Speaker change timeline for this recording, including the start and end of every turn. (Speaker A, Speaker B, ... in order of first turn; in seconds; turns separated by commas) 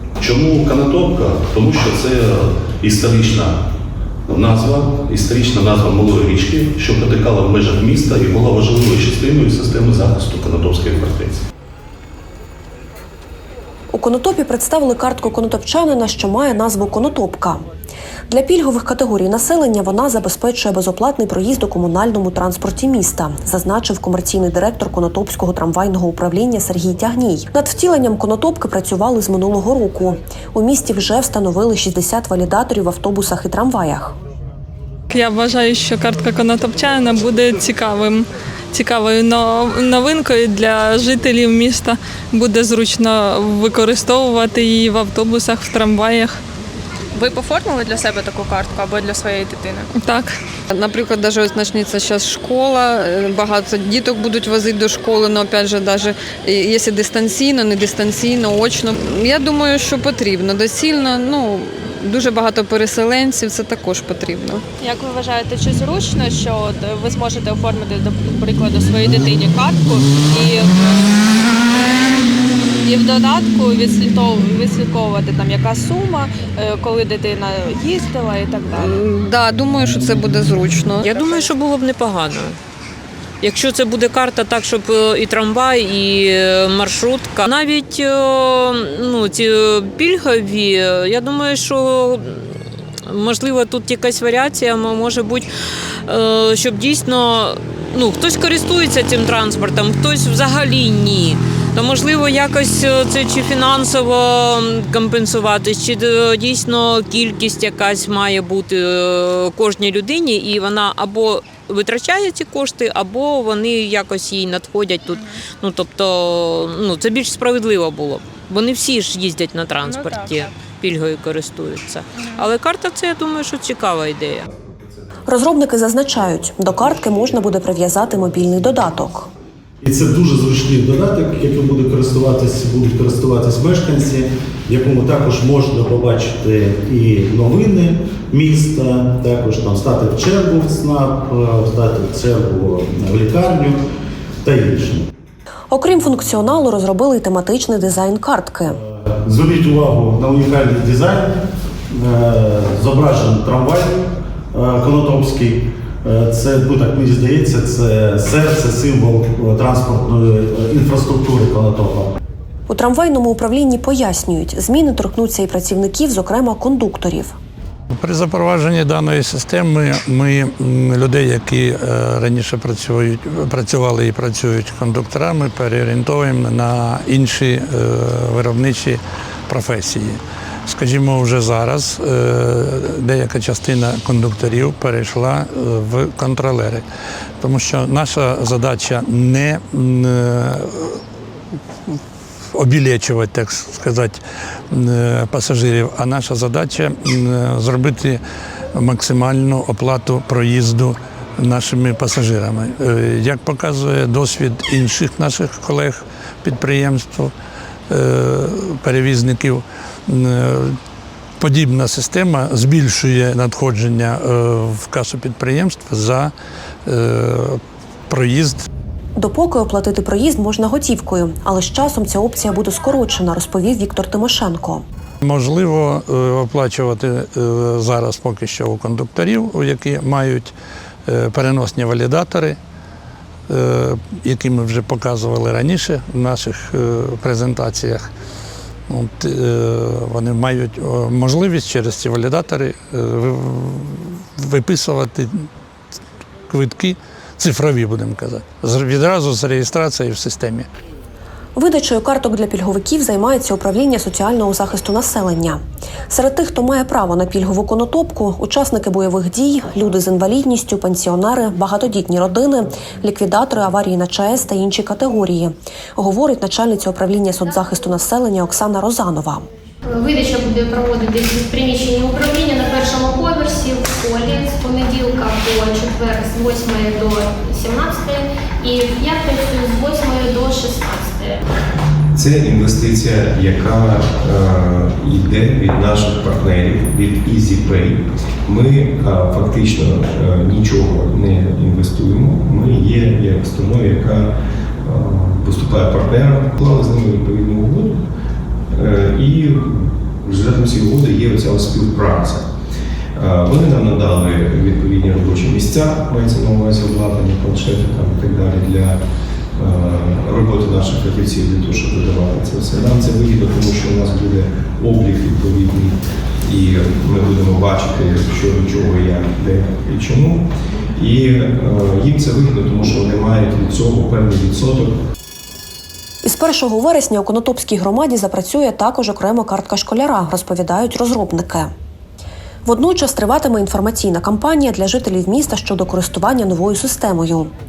Speaker A: 0.2-3.6, Speaker A: 4.3-11.4, Speaker B: 13.9-17.6, Speaker B: 18.3-34.1, Speaker C: 35.1-46.4, Speaker D: 47.1-49.9, Speaker C: 49.9-50.3, Speaker E: 50.7-64.6, Speaker D: 64.8-72.2, Speaker D: 72.8-79.1, Speaker E: 79.0-81.1, Speaker F: 81.0-82.6, Speaker D: 81.1-81.5, Speaker F: 83.4-92.5, Speaker F: 93.1-95.5, Speaker F: 96.0-124.5, Speaker D: 119.8-120.5, Speaker D: 122.2-122.5, Speaker G: 124.5-124.9, Speaker B: 125.3-129.3, Speaker H: 129.8-143.8, Speaker H: 144.4-145.1, Speaker B: 145.7-148.8, Speaker H: 148.8-151.4, Speaker H: 151.9-154.0, Speaker H: 154.5-162.1, Speaker B: 162.7-167.3, Speaker I: 167.9-186.8, Speaker I: 187.4-191.0, Speaker I: 192.5-194.2, Speaker I: 194.7-198.2, Speaker I: 198.7-207.3, Speaker I: 207.9-210.8, Speaker I: 211.4-216.3, Speaker I: 216.8-218.7, Speaker B: 219.2-224.8, Speaker I: 225.2-230.5, Speaker I: 231.1-232.6, Speaker I: 233.5-238.1, Speaker I: 238.9-245.5, Speaker I: 246.5-250.7, Speaker B: 251.6-269.4, Speaker J: 269.9-281.4, Speaker G: 282.1-294.3, Speaker G: 294.8-298.0, Speaker G: 298.7-302.4, Speaker G: 303.1-309.0, Speaker G: 309.6-320.4, Speaker G: 320.9-325.0, Speaker B: 326.2-331.7, Speaker B: 332.6-337.5